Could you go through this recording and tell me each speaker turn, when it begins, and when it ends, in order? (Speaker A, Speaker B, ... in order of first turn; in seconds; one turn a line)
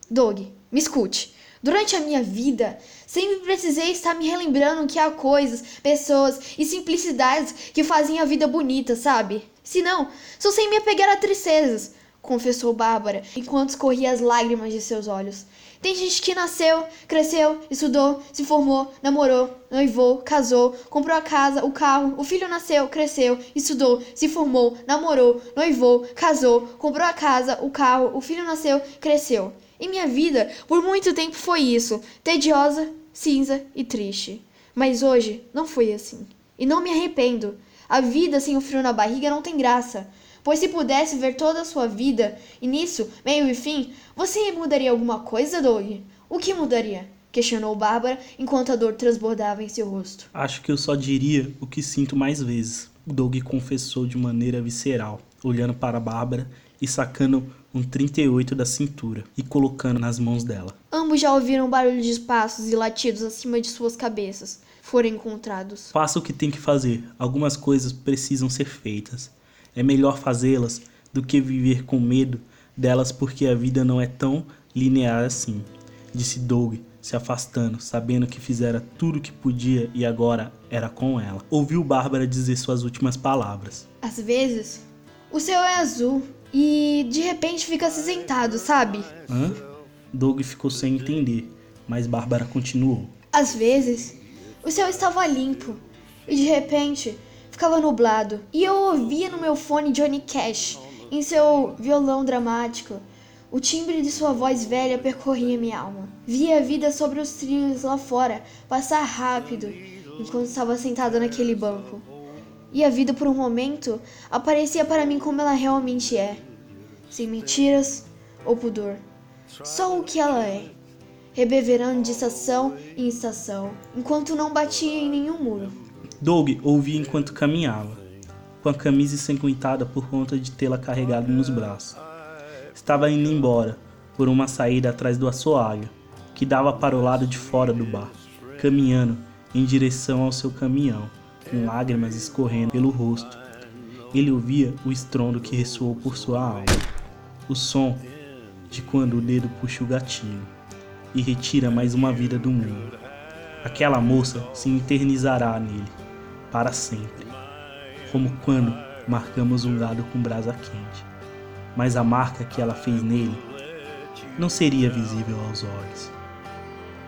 Speaker A: 0.1-50.3
Speaker B: 50.3-60.7
Speaker A: 60.9-65.9
Speaker B: 65.9-83.8
Speaker A: 84.0-89.1
Speaker B: 89.3-93.1
Speaker A: 93.3-112.1
Speaker A: 112.7-116.4
Speaker A: 117.1-119.0
Speaker A: 119.6-120.7
Speaker A: 121.3-125.8
Speaker B: 126.2-128.0
Speaker B: 128.6-132.0
Speaker B: 132.7-143.4
Speaker B: 144.1-146.8
Speaker B: 147.5-148.1
Speaker B: 148.7-150.5
Speaker B: 151.1-152.9
Speaker B: 153.6-155.9
Speaker B: 156.5-157.2
Speaker B: 158.0-161.1
Speaker B: 161.7-163.4
Speaker B: 164.3-166.1